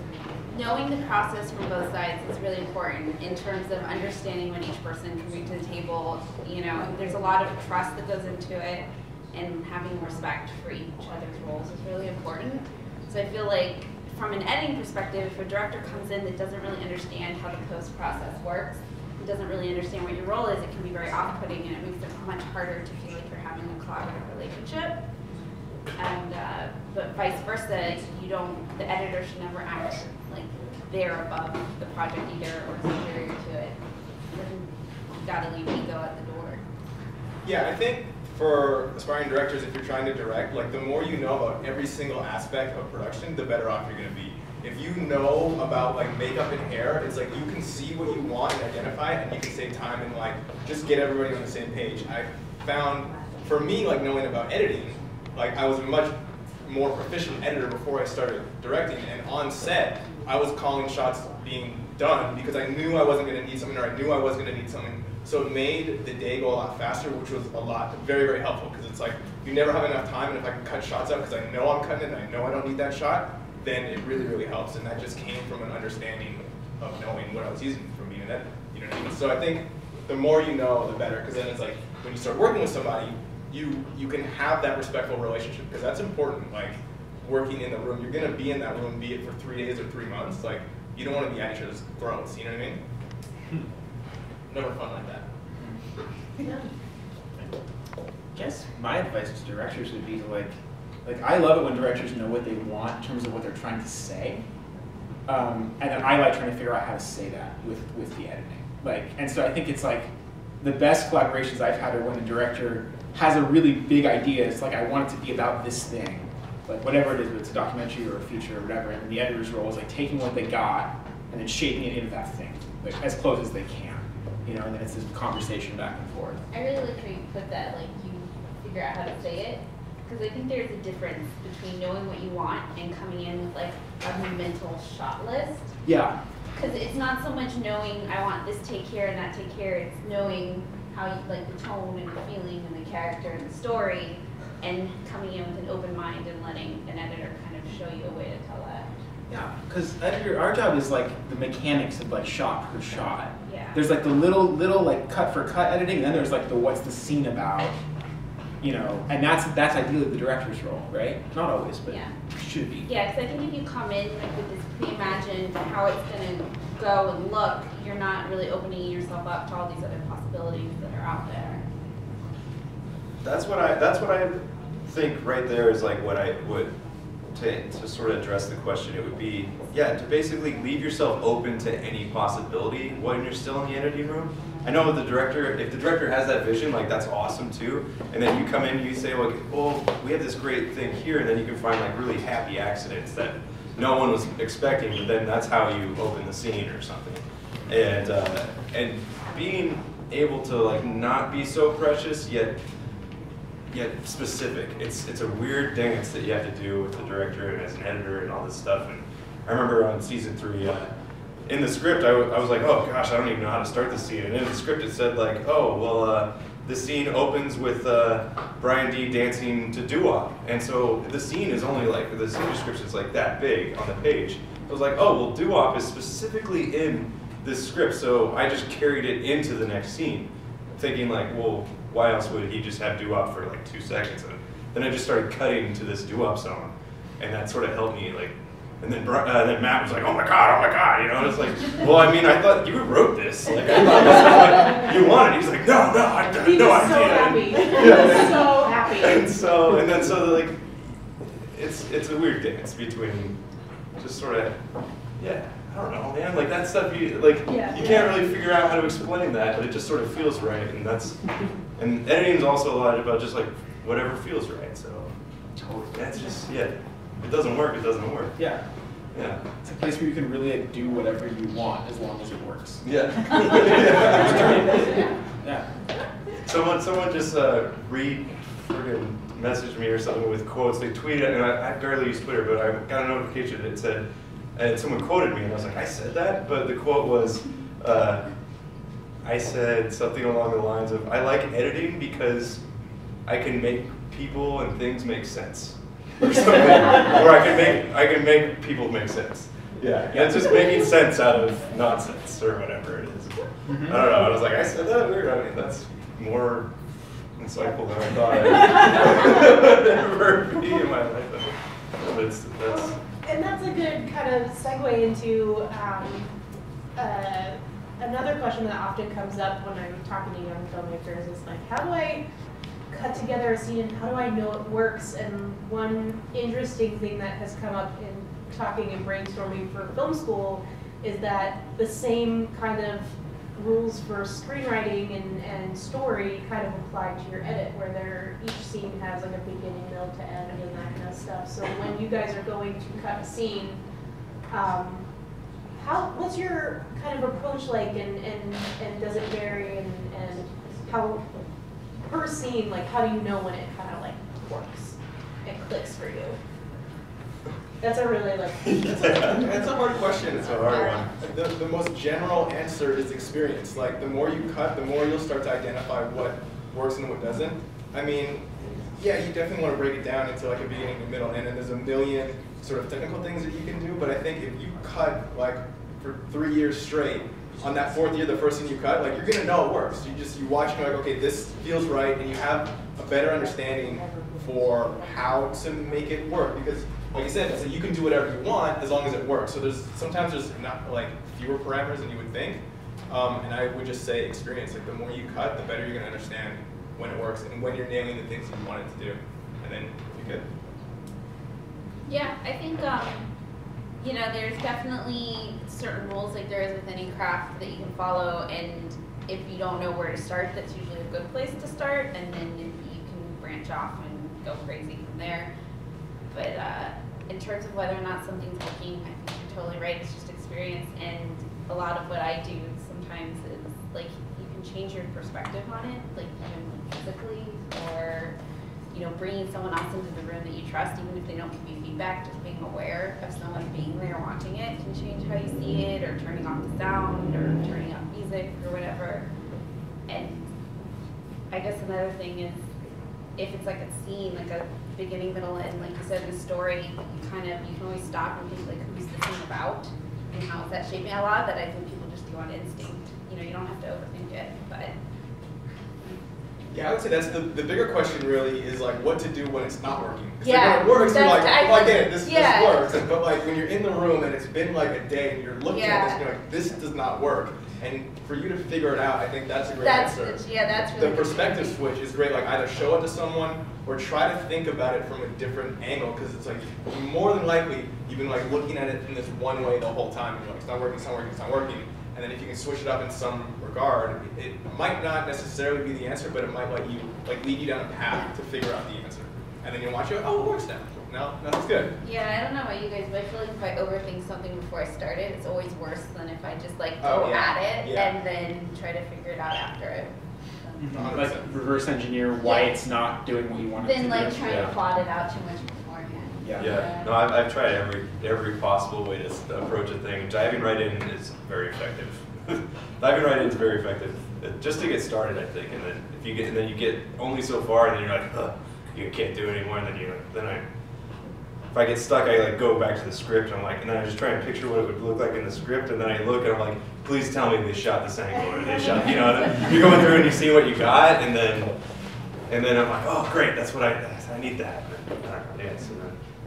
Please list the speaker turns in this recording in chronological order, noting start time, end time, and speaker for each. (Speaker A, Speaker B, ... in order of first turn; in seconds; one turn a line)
Speaker A: 0.5-25.0
Speaker A: 26.0-33.8
Speaker A: 34.3-36.6
Speaker B: 37.4-92.8
Speaker B: 94.5-95.3
Speaker C: 96.4-96.7
Speaker D: 98.3-104.5
Speaker D: 105.3-126.4
Speaker A: 126.5-135.7
Speaker D: 135.8-136.2
Speaker A: 136.5-148.9
Speaker D: 149.3-157.8
Speaker A: 153.4-153.8
Speaker D: 158.6-162.9
Speaker A: 161.9-162.1
Speaker A: 162.8-171.6
Speaker E: 173.2-176.7
Speaker E: 177.3-202.6
Speaker E: 203.7-210.9
Speaker E: 211.5-253.4
Speaker C: 246.4-249.3
Speaker E: 254.0-254.6
Speaker E: 255.2-261.2
Speaker C: 257.5-258.0
Speaker E: 261.8-265.1
Speaker E: 265.7-268.4
Speaker E: 269.1-269.4
Speaker D: 269.6-275.6
Speaker E: 272.8-274.8
Speaker E: 276.4-288.3
Speaker E: 289.2-292.6
Speaker E: 293.3-306.8
Speaker D: 296.4-297.1
Speaker D: 300.1-300.4
Speaker D: 303.7-304.0
Speaker E: 307.4-312.9
Speaker C: 312.7-316.4
Speaker C: 317.0-322.2
Speaker C: 322.9-343.8
Speaker C: 344.5-345.1
Speaker C: 345.8-351.2
Speaker C: 352.0-356.4
Speaker C: 357.8-359.6
Speaker E: 358.7-359.5
Speaker B: 359.3-400.5
Speaker E: 360.4-361.1
Speaker C: 360.6-361.0
Speaker A: 402.1-403.3
Speaker A: 404.0-415.5
Speaker A: 416.3-428.4
Speaker A: 428.9-439.2
Speaker A: 440.1-440.5
Speaker A: 441.5-442.6
Speaker A: 443.4-454.9
Speaker B: 456.7-470.4
Speaker A: 460.4-463.0
Speaker A: 465.7-466.2
Speaker A: 469.8-471.8
Speaker B: 470.9-491.9
Speaker A: 492.0-500.8
Speaker B: 497.0-498.1
Speaker D: 500.8-504.7
Speaker B: 500.9-501.5
Speaker A: 502.4-502.7
Speaker A: 503.8-507.1
Speaker E: 504.4-504.7
Speaker D: 506.4-506.8
Speaker E: 506.6-520.6
Speaker E: 521.7-531.7
Speaker E: 532.5-536.2